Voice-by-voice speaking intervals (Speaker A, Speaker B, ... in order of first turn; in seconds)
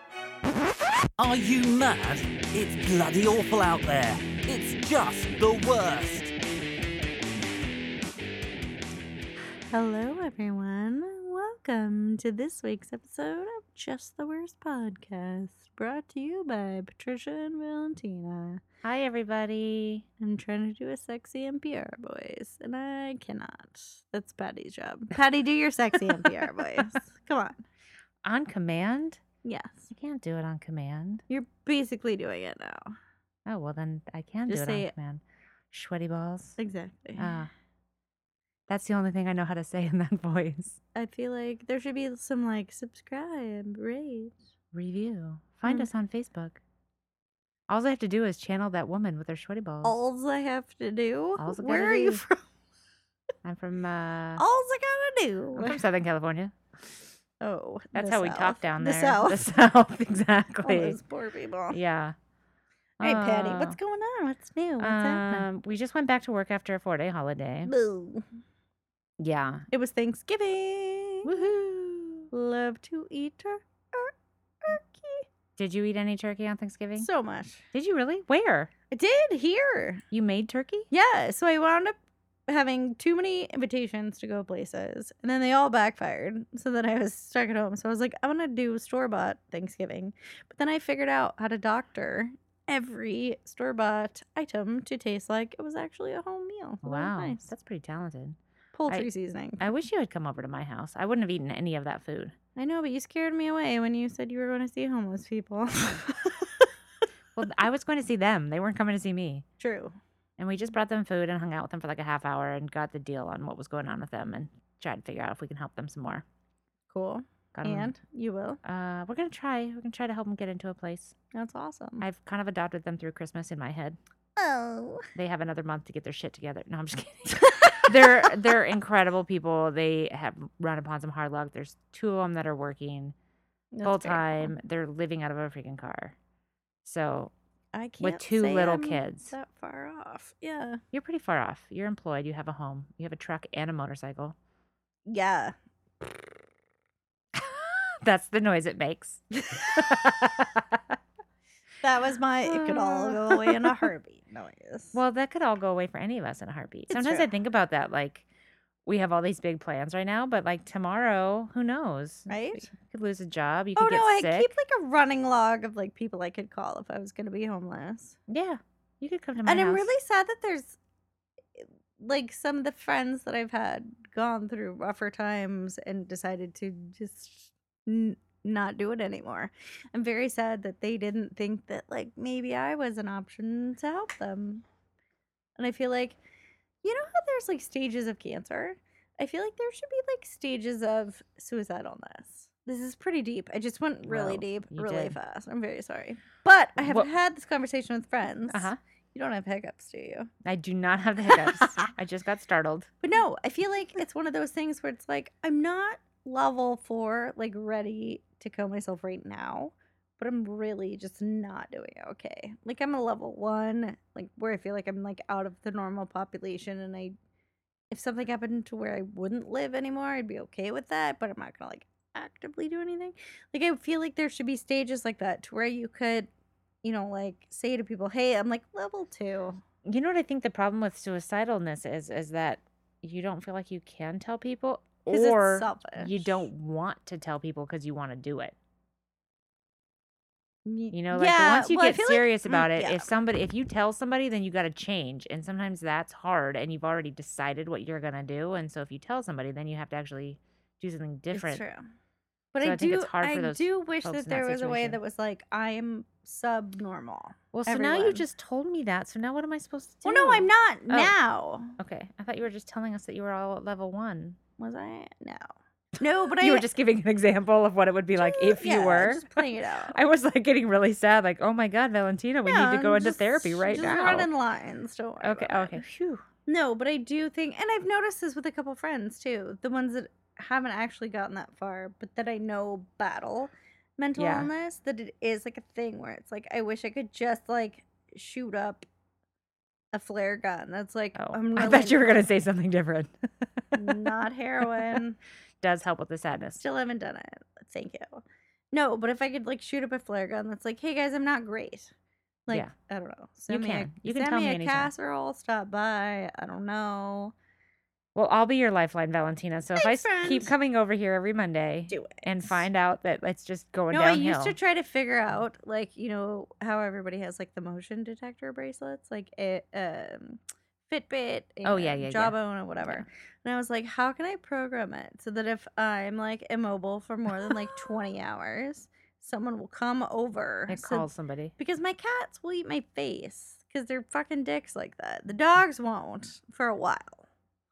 Speaker A: 1.2-6.3
Speaker B: 9.7-18.6, 20.2-27.6, 29.4-29.9, 31.3-32.9, 34.5-34.9, 36.6-37.3, 40.9-44.4, 49.8-52.4, 54.4-55.8, 57.4-59.5, 60.6-61.8, 63.0-65.5, 67.7-68.3, 69.7-71.5, 72.3-75.3, 77.0-77.7, 78.9-80.0, 80.9-97.4, 98.7-99.7, 102.5-106.7, 109.6-109.9, 116.9-118.6, 121.3-122.0, 124.4-125.1, 127.4-128.3, 133.7-134.5, 137.7-140.8, 145.1-146.1, 151.8-155.0, 156.9-157.3, 162.3-162.7, 163.8-168.2, 169.4-170.8, 171.6-184.6, 185.6-186.2, 186.8-200.3, 201.3-201.9, 203.0-217.1, 217.9-226.3, 226.8-229.6, 235.1-236.4, 240.7-243.1, 251.3-251.8, 252.5-258.2, 260.0-261.8, 264.6-266.7, 268.1-269.9, 272.4-275.8, 276.4-288.9, 289.9-292.2, 293.7-295.2, 296.6-301.9, 302.5-307.3, 309.7-310.5, 311.9-312.5, 313.9-337.3
Speaker C: 18.8-20.1, 26.1-26.7, 28.2-29.2, 29.9-31.2, 33.5-36.6, 37.2-37.5, 38.7-40.8, 44.7-46.6, 47.7-50.0, 51.4-52.2, 53.4-54.4, 55.5-56.5, 57.9-61.0, 61.7-62.1, 63.0-63.8, 64.8-67.7, 69.2-69.7, 71.2-72.3, 75.5-77.1, 77.7-78.7, 80.1-80.9, 96.8-98.4, 99.6-102.3, 107.3-109.5, 110.4-116.2, 117.5-117.9, 118.6-121.1, 122.0-124.0, 125.1-133.1, 133.8-136.2, 136.8-137.3, 138.0-139.3, 140.9-144.3, 147.3-151.0, 152.4-153.8, 154.9-158.2, 158.8-164.5, 168.3-169.8, 194.0-195.2, 196.8-197.1, 198.5-198.8, 200.4-202.9, 229.8-238.5, 240.9-251.6, 252.6-255.0, 257.5-261.1, 261.8-264.4, 266.2-274.3, 275.2-276.2, 284.2-284.5, 291.1-294.1, 294.7-295.0, 295.6-296.6, 303.5-304.9, 308.1-314.6, 321.6-323.1, 327.3-327.7, 330.7-331.5